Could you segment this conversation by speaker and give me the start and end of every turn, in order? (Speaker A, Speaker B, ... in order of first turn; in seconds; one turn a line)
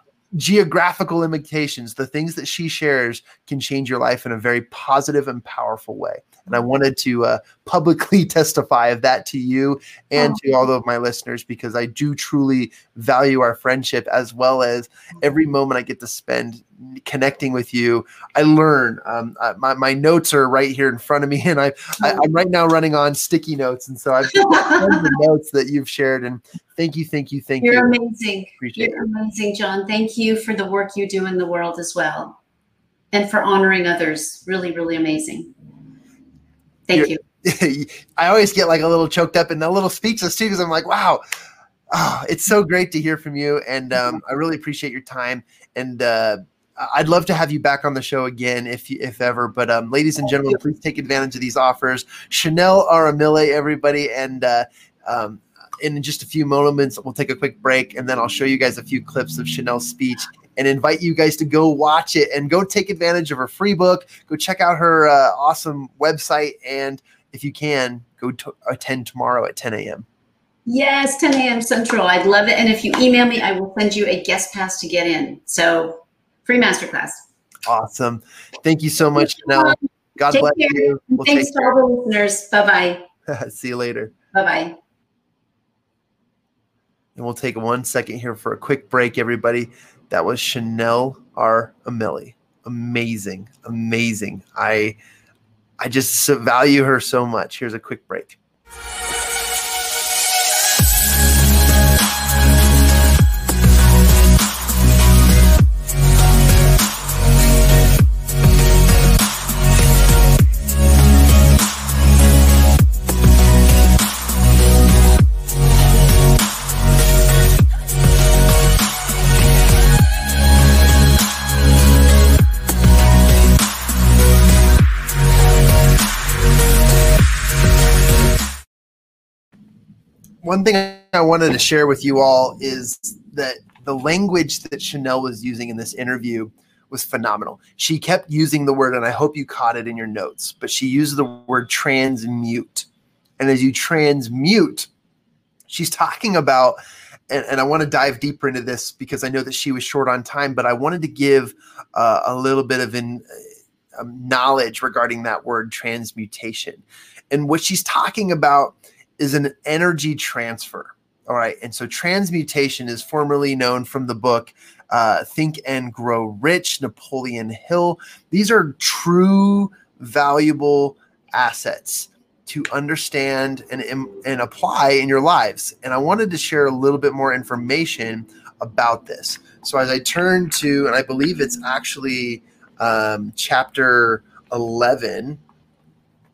Speaker A: 0.3-27.9
Speaker B: 10.2-10.4
Speaker B: 24.3-25.1
Speaker B: 27.6-32.4
Speaker A: 28.6-29.0
Speaker B: 33.1-35.5
Speaker B: 36.9-37.2
Speaker A: 36.9-41.2
Speaker A: 41.9-70.0
Speaker B: 70.7-77.2
Speaker A: 77.7-81.7
Speaker B: 79.1-79.8
Speaker B: 80.3-83.0
Speaker A: 83.3-84.1
Speaker B: 84.3-84.8
Speaker A: 87.2-95.0
Speaker A: 95.8-98.4
Speaker A: 130.4-142.9
Speaker A: 143.4-144.9
Speaker A: 145.7-146.8
Speaker A: 147.3-153.4
Speaker A: 153.9-185.4